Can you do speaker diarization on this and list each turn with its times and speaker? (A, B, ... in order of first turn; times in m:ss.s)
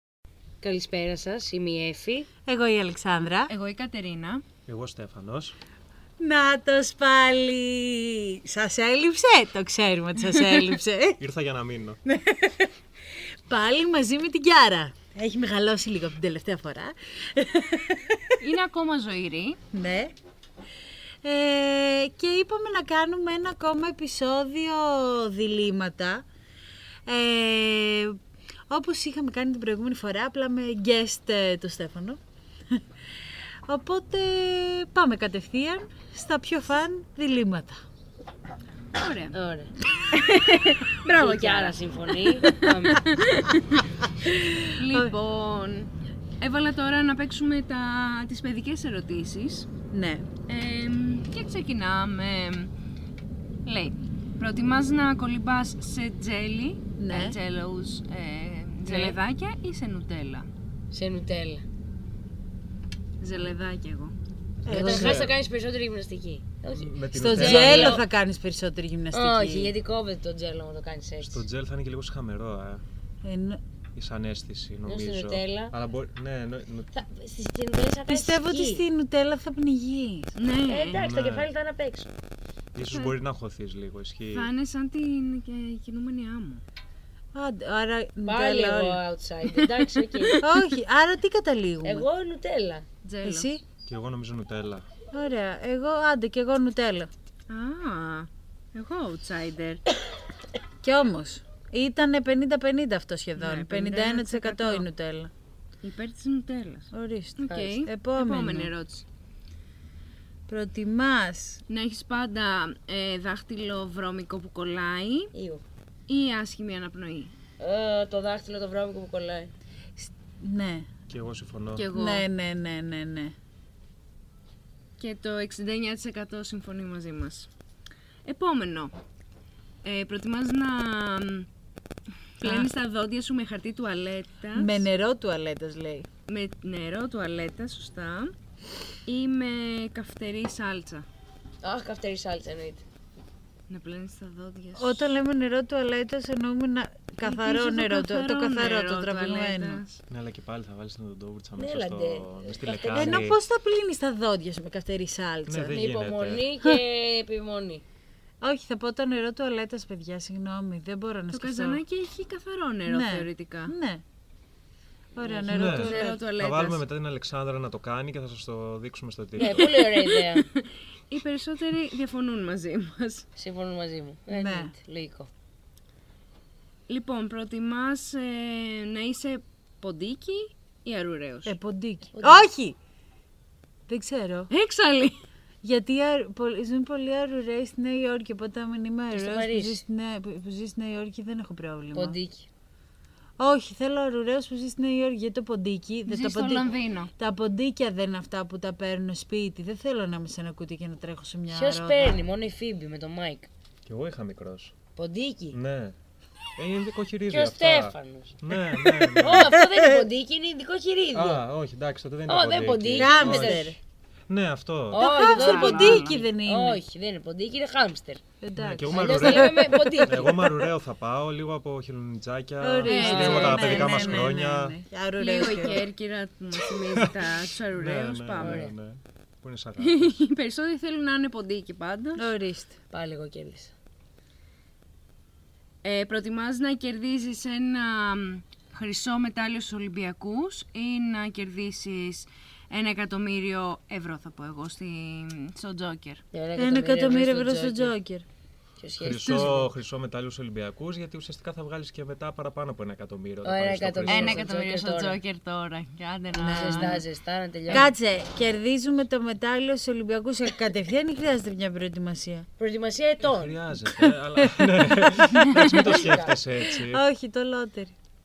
0:00.6-0:02.3 A
0:02.4-0:03.5 B
0:03.5-0:04.4 C
0:04.6-0:05.6 D
0:06.2-0:11.2 B
0:11.2-0:12.0 D
0:12.0-0:12.7 B
0:13.5-0:18.4 B
0:18.4-0:19.6 C
0:19.7-0:20.1 B
0:21.2-0:26.2 B
0:27.0-0:28.2 B
0:28.7-0:32.2 B
0:32.7-0:37.8 B
0:38.9-0:39.3 C
0:39.3-0:39.7 A
0:40.1-0:41.1 C
0:41.0-0:43.1 A
0:41.1-0:41.8 B
0:42.4-0:43.8 C
0:44.2-0:45.1 B
0:44.7-0:49.7 C
0:49.9-0:50.2 B
0:50.5-0:52.7 C
0:53.6-1:00.5 C
0:57.0-0:57.4 B
0:58.9-0:59.2 A
1:00.9-1:01.6 A
1:03.2-1:04.2 C
1:04.6-1:05.3 D
1:04.6-1:05.3 B
1:04.6-1:08.0 A
1:06.7-1:08.0 D
1:07.1-1:09.7 B
1:09.1-1:11.4 A
1:11.2-1:12.8 D
1:13.2-1:13.6 B
1:13.9-1:16.9 D
1:14.8-1:15.7 A
1:16.9-1:18.8 A
1:18.1-1:20.3 B
1:20.3-1:21.0 C
1:20.7-1:22.1 A
1:20.9-1:21.5 D
1:22.7-1:24.5 D
1:22.8-1:23.1 C
1:24.3-1:26.6 C
1:27.3-1:29.0 B
1:28.2-1:30.4 A
1:30.2-1:30.7 C
1:30.4-1:32.1 B
1:31.8-1:32.8 A
1:33.0-1:33.5 C
1:33.2-1:33.6 B
1:33.8-1:34.9 D
1:35.1-1:37.1 B
1:37.5-1:39.8 C
1:40.8-1:45.3 B
1:43.4-1:44.9 C
1:45.8-1:49.0 C
1:46.9-1:48.7 B
1:47.5-1:47.8 A
1:50.5-1:51.6 B
1:51.7-1:55.3 C
1:55.3-1:55.6 A
1:56.1-1:57.3 C
1:57.6-1:59.5 A
2:00.0-2:00.9 B
2:01.1-2:01.9 D
2:01.7-2:02.2 C
2:01.9-2:03.3 B
2:05.0-2:07.5 C
2:08.2-2:09.0 C
2:09.8-2:11.5 C
2:12.4-2:14.8 C
2:12.4-2:12.7 B
2:14.5-2:16.1 B
2:16.3-2:18.3 C
2:19.0-2:21.1 C
2:21.6-2:22.8 A
2:23.7-2:25.0 C
2:24.8-2:29.8 B
2:27.2-2:30.0 C
2:30.1-2:33.4 D
2:31.6-2:33.3 A
2:32.9-2:35.8 B
2:35.4-2:36.5 D
2:35.7-2:37.8 A
2:38.4-2:41.8 B
2:41.3-2:43.7 C
2:42.9-2:44.0 B
2:45.1-2:46.2 B
2:45.2-2:45.6 A
2:45.5-2:49.7 D
2:45.6-2:46.8 C
2:49.4-2:50.5 A
2:49.4-2:53.3 C
2:53.4-2:55.3 A
2:54.3-2:54.7 B
2:56.9-3:01.5 C
3:01.4-3:02.8 B
3:02.1-3:02.5 A
3:03.9-3:04.5 B
3:04.5-3:05.2 C
3:05.6-3:12.2 B
3:09.1-3:09.8 A
3:11.9-3:12.5 A
3:13.4-3:22.2 B
3:16.1-3:17.1 C
3:21.5-3:23.5 A
3:23.8-3:24.7 D
3:25.0-3:25.6 A
3:25.5-3:26.0 D
3:26.6-3:29.6 D
3:27.3-3:28.4 A
3:29.1-3:31.4 A
3:31.1-3:33.6 D
3:32.3-3:33.8 A
3:33.0-3:33.8 B
3:34.3-3:35.1 D
3:34.9-3:38.2 A
3:35.0-3:36.8 B
3:35.1-3:36.2 C
3:38.4-3:40.7 B
3:38.6-3:44.8 D
3:38.9-3:40.5 A
3:42.6-3:45.8 B
3:42.8-3:44.3 C
3:45.2-3:48.7 C
3:46.9-3:50.3 D
3:48.4-3:48.7 A
3:49.8-3:52.3 C
3:52.2-3:52.8 B
3:52.9-3:53.7 A
3:55.8-4:06.2 C
4:06.3-4:07.9 A
4:06.6-4:08.2 B
4:08.8-4:09.7 A
4:09.0-4:14.5 D
4:13.4-4:15.2 A
4:14.1-4:17.0 C
4:16.3-4:17.0 B
4:16.4-4:17.9 A
4:17.7-4:22.5 B
4:22.6-4:23.6 A
4:23.2-4:27.0 D
4:23.8-4:25.8 B
4:25.3-4:26.0 C
4:26.0-4:26.4 A
4:26.6-4:27.9 B